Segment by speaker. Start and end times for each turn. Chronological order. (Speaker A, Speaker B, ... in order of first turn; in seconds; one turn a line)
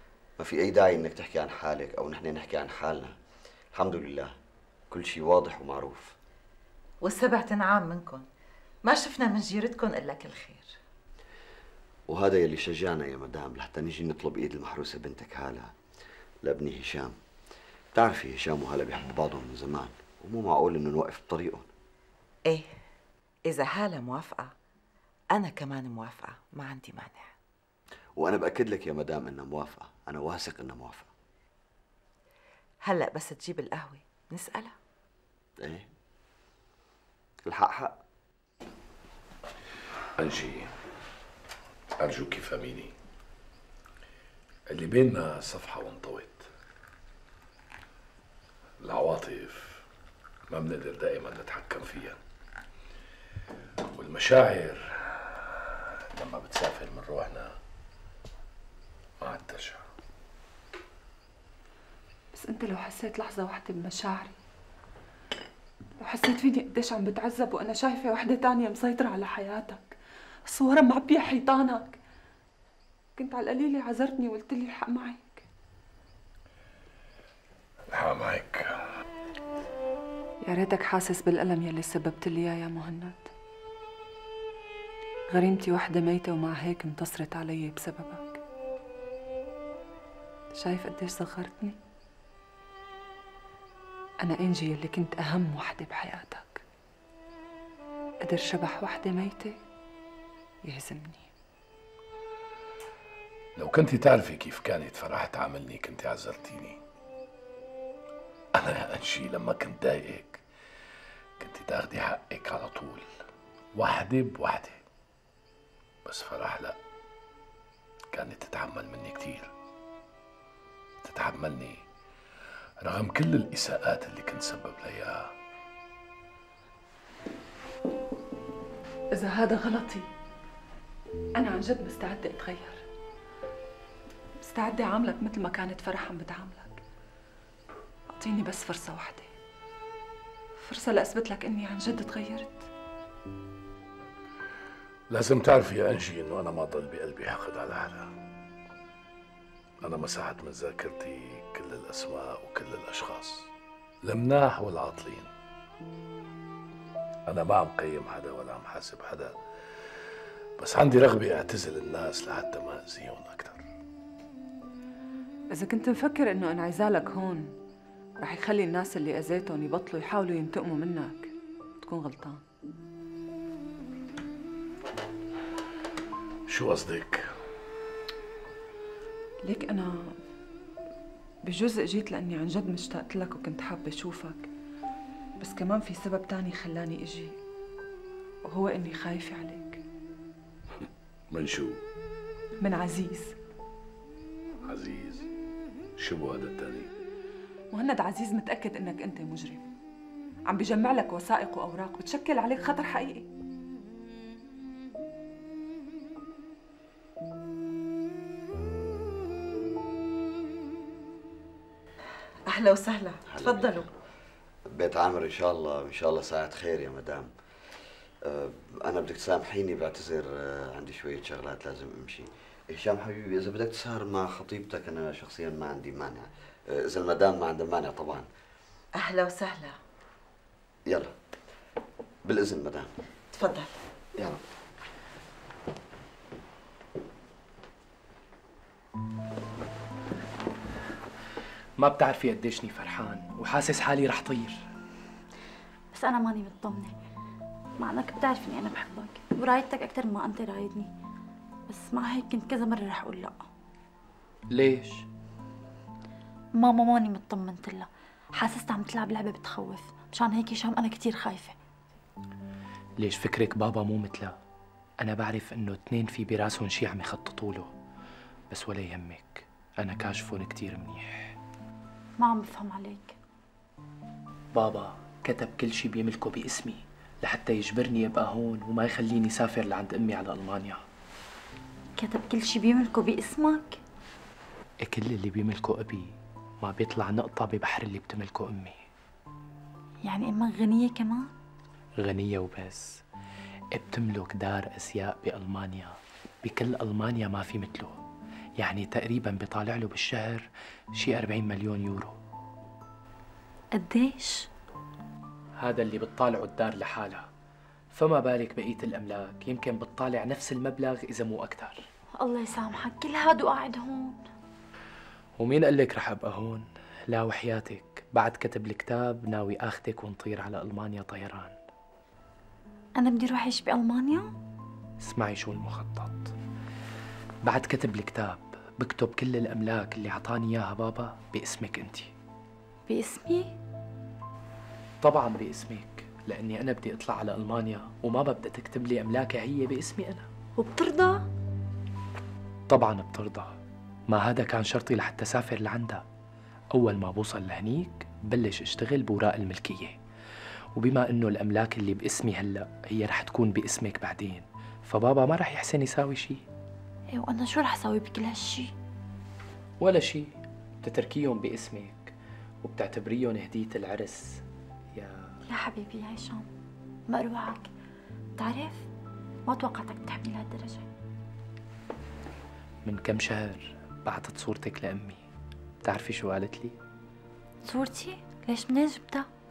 Speaker A: 0.4-3.1
Speaker A: 3.7-4.3
Speaker A: 4.9-6.1
Speaker B: 7.0-8.2
Speaker B: 8.8-10.7
Speaker A: 12.1-15.7
Speaker A: 16.4-17.2
Speaker A: 17.9-21.7
Speaker B: 23.5-24.5
Speaker B: 25.3-27.3
Speaker A: 28.2-31.1
Speaker B: 32.8-34.7
Speaker A: 35.6-35.9
Speaker A: 37.5-38.0
Speaker C: 40.2-40.7
Speaker C: 42.0-42.9
Speaker C: 44.7-46.5
Speaker C: 48.8-49.8
Speaker C: 50.5-52.2
Speaker C: 53.9-57.5
Speaker C: 59.2-59.8
Speaker D: 62.3-64.3
Speaker D: 66.0-72.0
Speaker D: 73.2-75.5
Speaker C: 77.9-78.8
Speaker D: 80.4-83.3
Speaker D: 85.3-88.4
Speaker D: 90.5-91.8
Speaker D: 94.2-96.6
Speaker D: 98.2-99.6
Speaker D: 100.6-101.3
Speaker C: 103.5-106.8
Speaker C: 108.5-110.4
Speaker C: 111.4-113.1
Speaker C: 113.7-114.8
Speaker C: 116.0-116.8
Speaker C: 118.1-119.5
Speaker C: 121.0-121.8
Speaker C: 122.8-125.3
Speaker D: 129.1-130.1
Speaker D: 131.3-132.8
Speaker D: 134.4-136.8
Speaker D: 138.1-139.3
Speaker D: 140.6-142.7
Speaker C: 145.1-148.1
Speaker C: 149.8-153.5
Speaker C: 154.0-155.3
Speaker C: 157.3-159.9
Speaker C: 160.6-163.6
Speaker D: 165.5-167.5
Speaker D: 168.2-172.4
Speaker C: 176.5-177.2
Speaker D: 179.4-180.2
Speaker D: 181.4-184.5
Speaker D: 185.4-187.4
Speaker D: 188.4-189.8
Speaker C: 190.8-191.8
Speaker D: 192.6-193.3
Speaker C: 194.6-195.2
Speaker C: 196.0-196.9
Speaker D: 197.7-199.6
Speaker D: 200.5-203.3
Speaker B: 212.5-213.9
Speaker A: 213.3-213.7
Speaker A: 214.7-217.3
Speaker A: 218.2-228.2
Speaker B: 229.0-229.8
Speaker A: 230.9-231.1
Speaker A: 232.2-232.9
Speaker B: 233.3-233.7
Speaker E: 241.8-244.6
Speaker F: 245.9-247.0
Speaker F: 247.8-250.9
Speaker F: 251.7-253.4
Speaker E: 254.5-255.1
Speaker F: 256.5-261.6
Speaker E: 263.0-264.4
Speaker E: 265.0-267.7
Speaker E: 268.5-271.4
Speaker F: 272.2-273.1
Speaker E: 274.5-280.8
Speaker F: 282.0-283.8
Speaker E: 284.8-288.8
Speaker F: 290.0-291.3
Speaker E: 292.0-293.0
Speaker E: 293.7-298.0
Speaker E: 298.6-302.1
Speaker F: 303.7-304.5
Speaker E: 305.6-307.3
Speaker E: 307.9-311.9
Speaker F: 312.2-314.2
Speaker E: 315.4-321.6
Speaker F: 322.9-324.3
Speaker E: 325.0-326.3
Speaker E: 327.4-332.1
Speaker F: 332.9-333.5
Speaker E: 335.0-340.3
Speaker F: 340.6-341.2
Speaker E: 342.7-343.6
Speaker E: 344.1-346.0
Speaker E: 346.7-350.0
Speaker E: 350.7-356.4
Speaker F: 357.1-358.7
Speaker E: 359.8-364.4
Speaker E: 364.9-365.4
Speaker F: 365.5-366.4
Speaker F: 367.1-367.7
Speaker F: 368.4-368.9
Speaker F: 369.5-370.9
Speaker E: 372.8-375.2
Speaker E: 375.8-376.7
Speaker F: 377.6-379.3